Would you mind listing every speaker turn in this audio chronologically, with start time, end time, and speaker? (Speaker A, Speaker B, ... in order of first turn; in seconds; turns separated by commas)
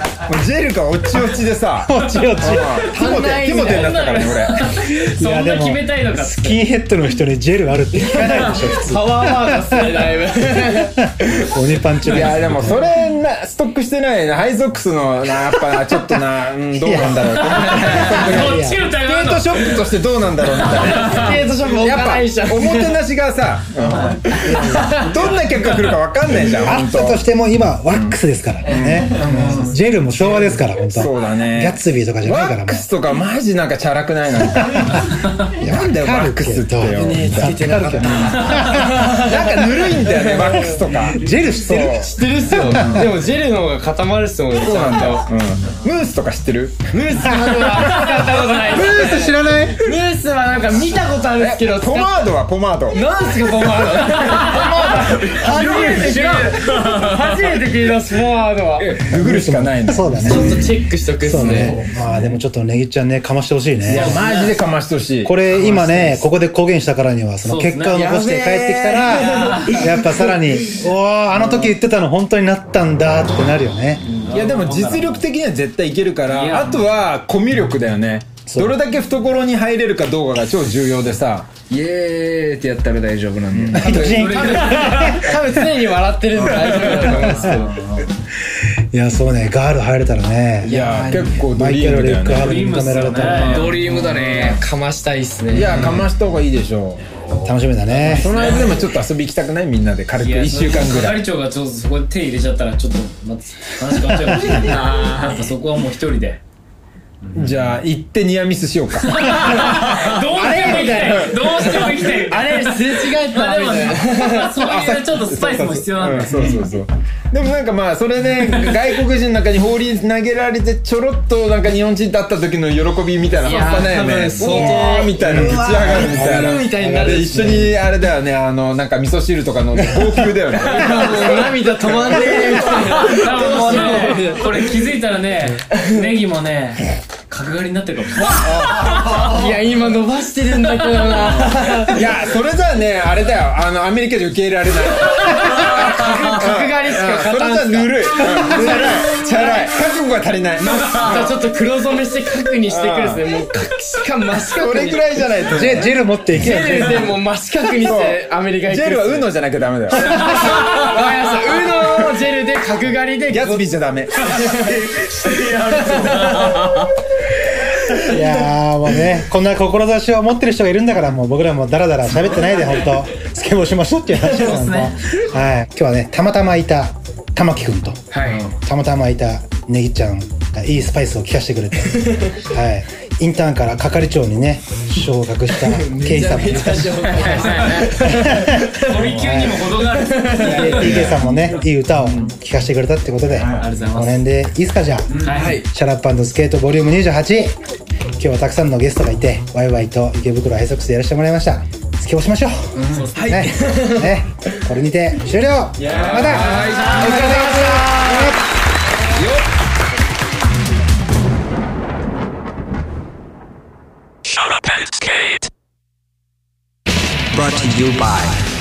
Speaker A: 0.2-4.7, Speaker B: 1.8-2.9, Speaker C: 2.5-6.6, Speaker D: 2.8-4.0, Speaker B: 5.2-12.9, Speaker D: 8.0-11.5, Speaker A: 12.1-27.2, Speaker D: 12.1-12.5, Speaker B: 16.8-18.8, Speaker C: 17.4-19.8, Speaker C: 20.7-21.3, Speaker D: 20.8-23.0, Speaker D: 24.4-25.3, Speaker B: 26.4-32.9, Speaker A: 27.9-37.9, Speaker B: 34.4-35.0, Speaker C: 35.1-35.5, Speaker B: 35.6-39.9, Speaker D: 36.9-40.9, Speaker C: 38.2-38.9, Speaker A: 38.8-43.1, Speaker B: 41.1-43.1, Speaker D: 41.7-45.3, Speaker A: 44.5-46.9, Speaker D: 46.9-52.3, Speaker B: 47.2-48.1, Speaker C: 47.8-49.4, Speaker B: 48.7-49.8, Speaker A: 51.4-53.0, Speaker D: 52.9-59.0, Speaker A: 53.8-56.6, Speaker B: 54.5-56.4, Speaker C: 56.0-57.2, Speaker A: 58.8-60.6, Speaker B: 59.1-60.7, Speaker D: 60.2-61.9, Speaker B: 61.2-64.2, Speaker A: 61.4-61.7, Speaker A: 63.9-66.3, Speaker D: 64.0-64.4, Speaker C: 64.0-64.5, Speaker B: 65.2-74.0, Speaker C: 67.4-68.1, Speaker D: 67.9-70.4, Speaker A: 68.9-69.2, Speaker C: 69.3-69.8, Speaker C: 74.0-75.2, Speaker A: 74.3-81.5, Speaker C: 76.3-76.8, Speaker B: 78.5-78.8, Speaker E: 81.7-84.8, Speaker A: 83.5-84.0, Speaker B: 83.7-85.6, Speaker C: 83.9-85.3, Speaker D: 85.0-87.9, Speaker A: 86.4-87.5, Speaker B: 87.0-87.6, Speaker B: 88.5-93.7, Speaker A: 90.6-94.6, Speaker D: 90.7-91.4, Speaker C: 92.3-93.7, Speaker E: 93.3-94.6, Speaker D: 93.9-96.0, Speaker A: 95.5-97.0, Speaker B: 97.4-98.4, Speaker C: 97.9-98.9, Speaker A: 98.1-101.2, Speaker C: 100.2-106.4, Speaker A: 107.3-111.9, Speaker C: 109.1-116.6, Speaker B: 110.5-111.3, Speaker D: 111.6-114.6, Speaker A: 114.6-133.0, Speaker B: 116.3-116.7, Speaker D: 123.4-127.8, Speaker B: 124.4-127.7, Speaker D: 130.6-134.8, Speaker C: 133.0-139.3, Speaker D: 135.8-136.1, Speaker A: 138.4-139.3, Speaker D: 139.1-142.0, Speaker A: 141.9-151.5, Speaker D: 145.1-149.7, Speaker B: 148.5-149.0, Speaker D: 150.6-159.3, Speaker A: 152.7-153.3, Speaker A: 154.4-155.9, Speaker B: 155.5-157.1, Speaker A: 156.7-157.1, Speaker A: 157.8-162.0, Speaker D: 159.9-166.6, Speaker A: 163.3-164.8, Speaker C: 165.2-166.6, Speaker B: 168.0-189.8, Speaker C: 174.3-175.0, Speaker E: 178.1-178.5, Speaker D: 182.0-182.3, Speaker D: 185.7-189.1, Speaker E: 186.1-188.1, Speaker C: 188.8-190.9, Speaker D: 189.8-190.6, Speaker A: 190.4-191.3, Speaker B: 190.4-197.6, Speaker C: 193.5-194.2, Speaker C: 195.2-195.6, Speaker E: 195.3-195.7, Speaker B: 198.2-208.4, Speaker E: 202.8-203.5, Speaker D: 203.2-204.2, Speaker A: 205.8-206.9, Speaker E: 205.8-207.9, Speaker D: 206.4-208.4, Speaker C: 206.6-207.2, Speaker E: 209.1-209.5, Speaker F: 214.3-215.5, Speaker F: 217.4-218.4